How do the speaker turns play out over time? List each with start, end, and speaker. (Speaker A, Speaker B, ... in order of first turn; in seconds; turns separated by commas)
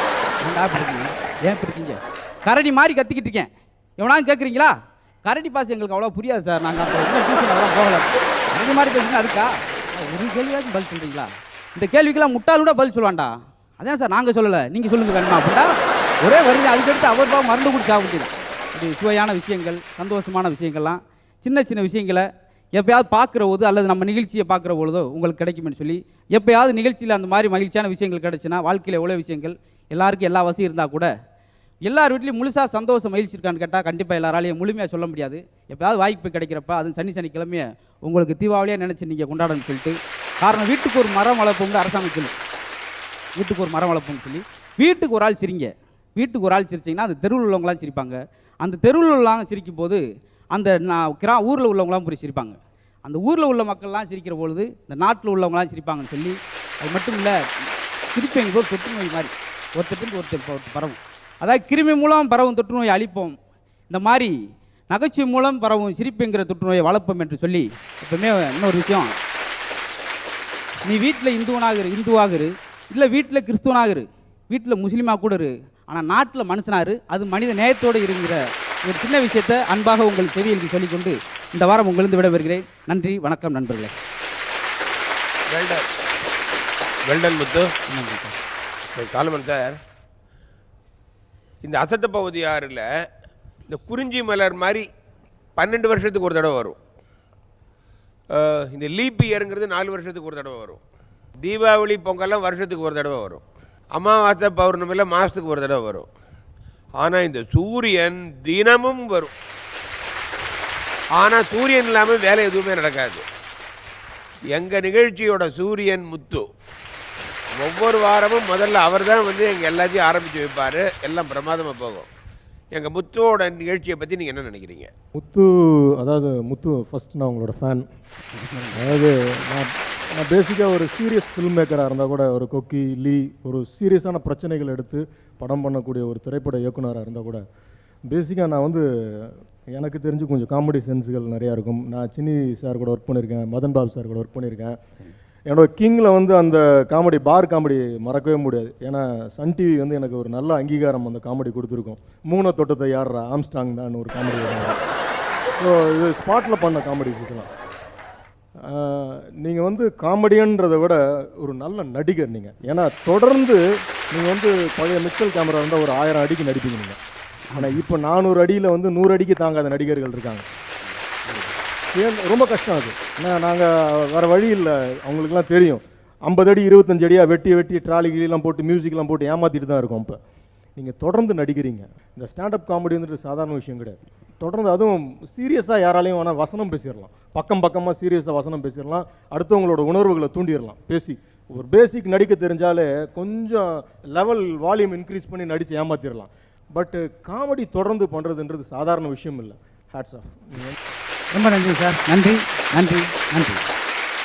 Speaker A: 0.4-15.7, Speaker A: 16.2-31.1, Speaker A: 31.8-42.3, Speaker A: 43.4-50.0, Speaker A: 50.5-57.4, Speaker A: 58.1-63.4, Speaker A: 63.9-64.4, Speaker A: 64.9-69.1, Speaker A: 70.9-83.9, Speaker B: 85.5-85.9, Speaker B: 87.0-87.7, Speaker A: 87.9-88.3, Speaker B: 89.0-89.8, Speaker B: 91.6-92.9, Speaker B: 93.7-94.9, Speaker B: 95.6-96.8, Speaker B: 98.3-100.8, Speaker B: 101.4-103.4, Speaker B: 103.9-106.1, Speaker B: 107.0-109.3, Speaker B: 111.2-113.2, Speaker B: 114.5-116.5, Speaker B: 117.6-122.1, Speaker B: 122.7-124.9, Speaker C: 125.2-127.9, Speaker A: 128.5-128.8, Speaker C: 128.7-137.4, Speaker C: 138.1-144.8, Speaker C: 145.5-154.8, Speaker C: 155.6-157.5, Speaker C: 158.7-167.0, Speaker A: 167.5-167.8, Speaker C: 167.6-170.4, Speaker C: 171.9-180.2, Speaker C: 180.8-200.8, Speaker A: 201.3-203.7